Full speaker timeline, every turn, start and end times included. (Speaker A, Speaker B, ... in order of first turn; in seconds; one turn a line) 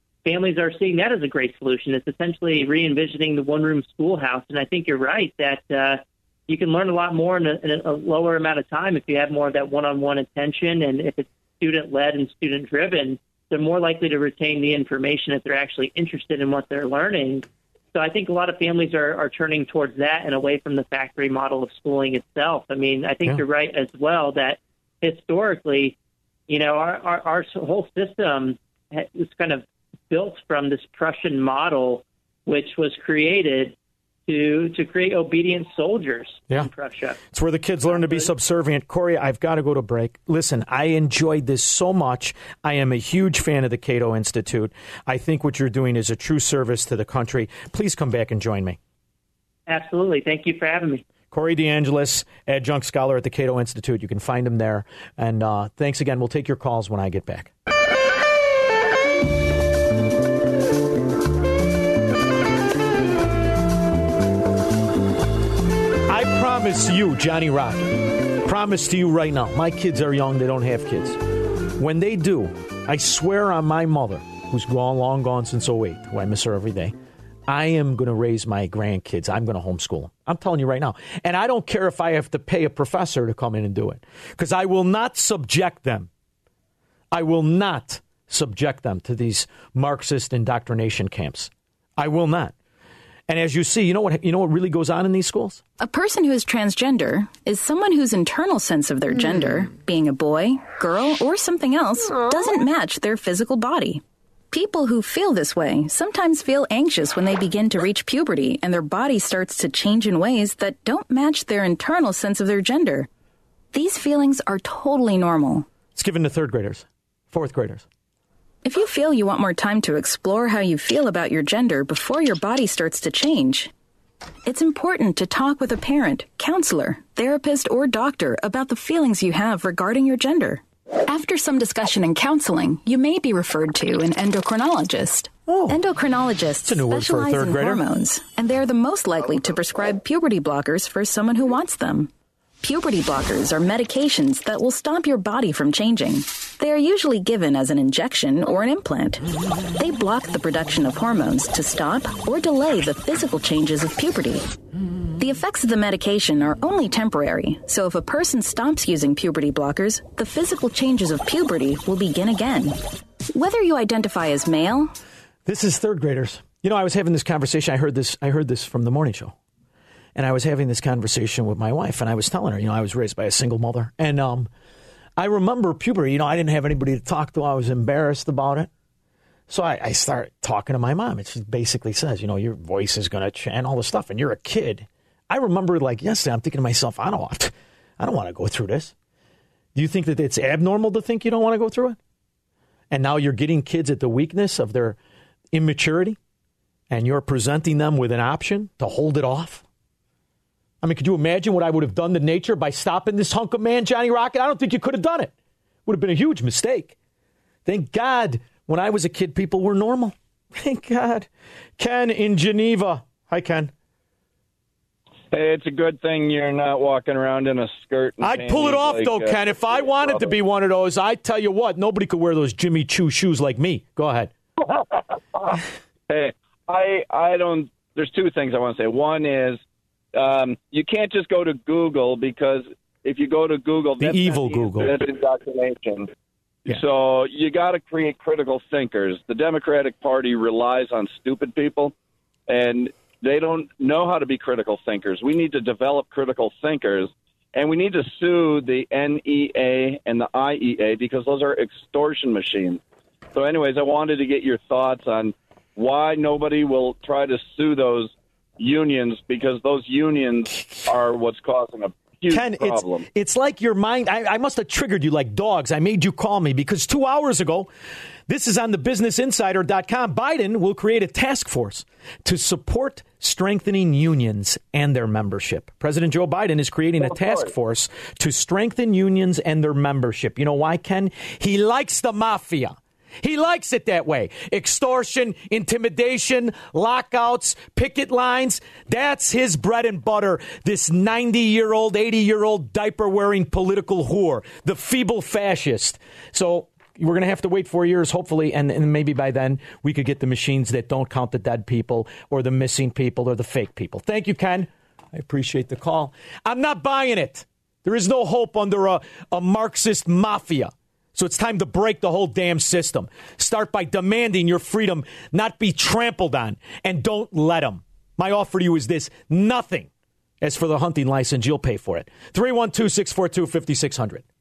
Speaker A: 0.2-25.9
Speaker A: 26.5-33.7
Speaker A: 34.3-37.2
Speaker B: 37.3-48.8
Speaker A: 37.9-38.3
Speaker A: 49.7-51.0
Speaker B: 51.3-57.5
Speaker B: 66.1-67.9
Speaker B: 68.4-71.2
Speaker B: 71.8-76.9
Speaker B: 77.5-86.1
Speaker B: 87.1-92.5
Speaker B: 93.3-95.6
Speaker C: 95.8-113.1
Speaker C: 113.7-115.7
Speaker B: 115.9-117.8
Speaker C: 118.6-123.7
Speaker C: 124.5-142.1
Speaker B: 135.5-135.8
Speaker B: 136.6-137.8
Speaker C: 142.6-149.2
Speaker C: 149.8-154.5
Speaker C: 155.2-162.8
Speaker C: 163.3-164.9
Speaker B: 165.4-169.3
Speaker B: 170.1-174.5
Speaker B: 175.2-178.7
Speaker B: 179.5-188.9
Speaker B: 189.7-192.0
Speaker B: 192.9-195.0
Speaker B: 195.5-196.2
Speaker B: 196.9-199.6
Speaker B: 200.8-205.3
Speaker B: 205.8-206.9
Speaker B: 207.6-213.7
Speaker D: 215.3-220.3
Speaker B: 218.2-224.3
Speaker D: 226.1-229.6
Speaker D: 230.1-236.1
Speaker B: 234.0-235.0
Speaker D: 236.7-241.9
Speaker D: 242.5-252.8
Speaker D: 253.3-263.1
Speaker B: 262.3-267.7
Speaker B: 268.3-319.9
Speaker B: 320.4-324.2